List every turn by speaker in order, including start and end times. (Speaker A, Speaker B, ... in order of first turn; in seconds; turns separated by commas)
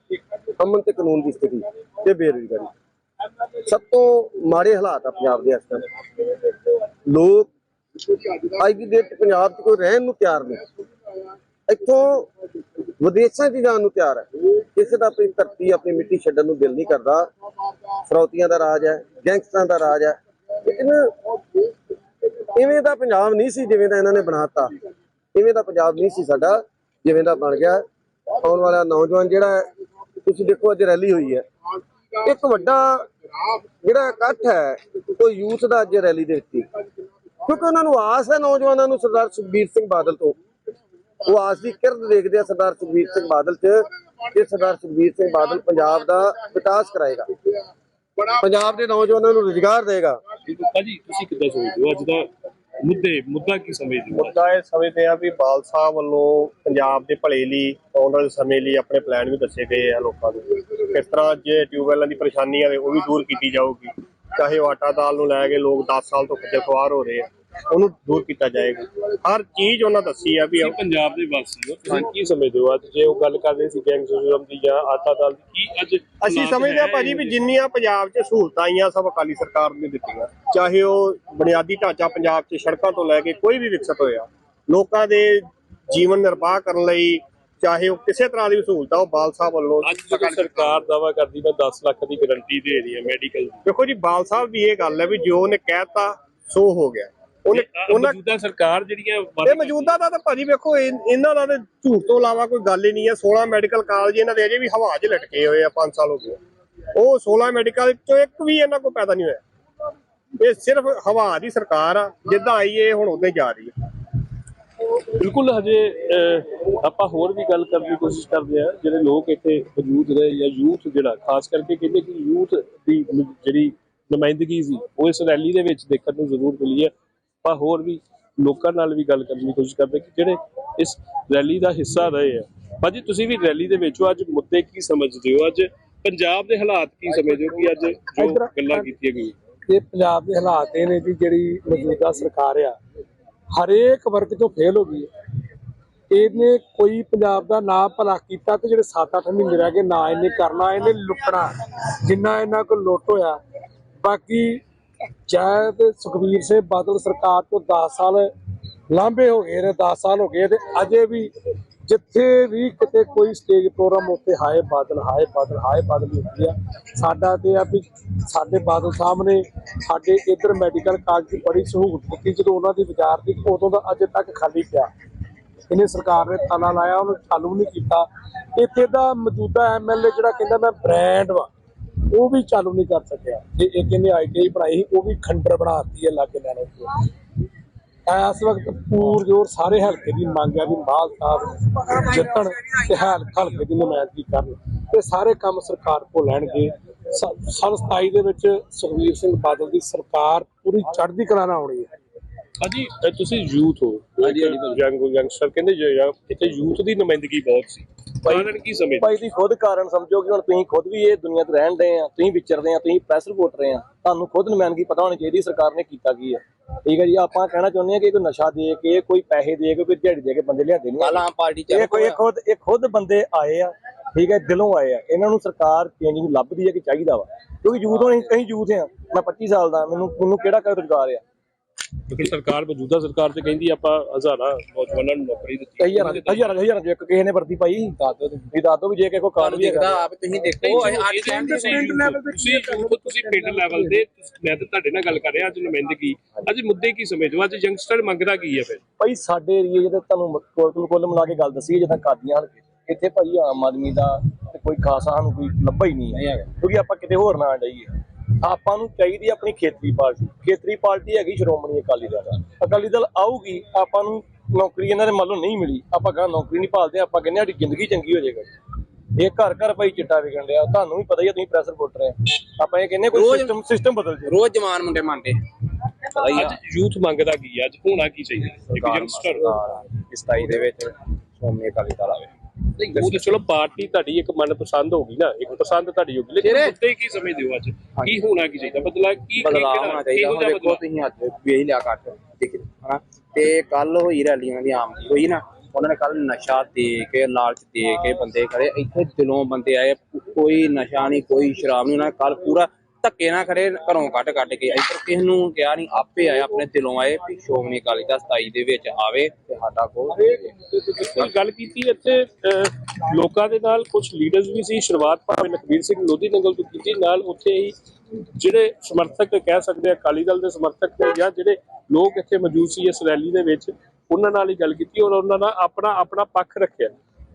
Speaker A: 0.6-2.7, Speaker A: 3.6-5.8, Speaker A: 7.1-7.5, Speaker A: 8.5-10.6, Speaker A: 11.7-12.3, Speaker A: 13.0-17.3, Speaker A: 18.1-21.2, Speaker A: 22.5-24.7, Speaker A: 25.4-27.8, Speaker A: 28.4-29.7, Speaker A: 30.2-31.4, Speaker A: 32.2-33.1, Speaker A: 33.8-36.7, Speaker A: 37.5-40.4, Speaker A: 41.2-47.3, Speaker A: 48.3-50.2, Speaker B: 50.5-52.3, Speaker B: 52.8-54.4, Speaker C: 54.1-70.8, Speaker B: 70.6-77.4, Speaker C: 76.2-90.8, Speaker B: 89.8-93.6, Speaker C: 93.7-98.2, Speaker B: 97.5-99.9, Speaker C: 99.5-106.4, Speaker C: 107.0-109.4, Speaker C: 110.4-113.7, Speaker B: 115.2-126.9, Speaker B: 127.4-139.3, Speaker D: 138.2-138.7, Speaker D: 139.7-142.8, Speaker D: 143.6-145.1, Speaker D: 146.1-151.5, Speaker D: 152.0-153.4, Speaker D: 154.0-154.6, Speaker D: 155.3-158.3, Speaker D: 158.9-161.3, Speaker D: 161.9-174.9, Speaker D: 175.7-181.5, Speaker D: 182.1-186.9, Speaker D: 188.1-201.9, Speaker B: 202.6-209.2, Speaker E: 204.3-204.8, Speaker E: 208.2-231.2, Speaker F: 221.0-222.2, Speaker F: 227.9-228.3, Speaker B: 232.1-236.6, Speaker E: 235.8-240.1, Speaker F: 239.4-242.1, Speaker B: 240.6-248.8, Speaker E: 240.7-241.0, Speaker E: 249.0-268.5, Speaker F: 256.2-256.5, Speaker E: 269.2-274.4, Speaker F: 273.1-273.6, Speaker F: 274.2-275.4, Speaker F: 276.1-276.5, Speaker B: 276.3-279.6, Speaker F: 278.8-282.3, Speaker B: 282.8-290.8, Speaker F: 282.9-283.2, Speaker F: 286.4-286.7, Speaker F: 289.4-310.5, Speaker B: 310.6-317.8, Speaker B: 318.4-326.9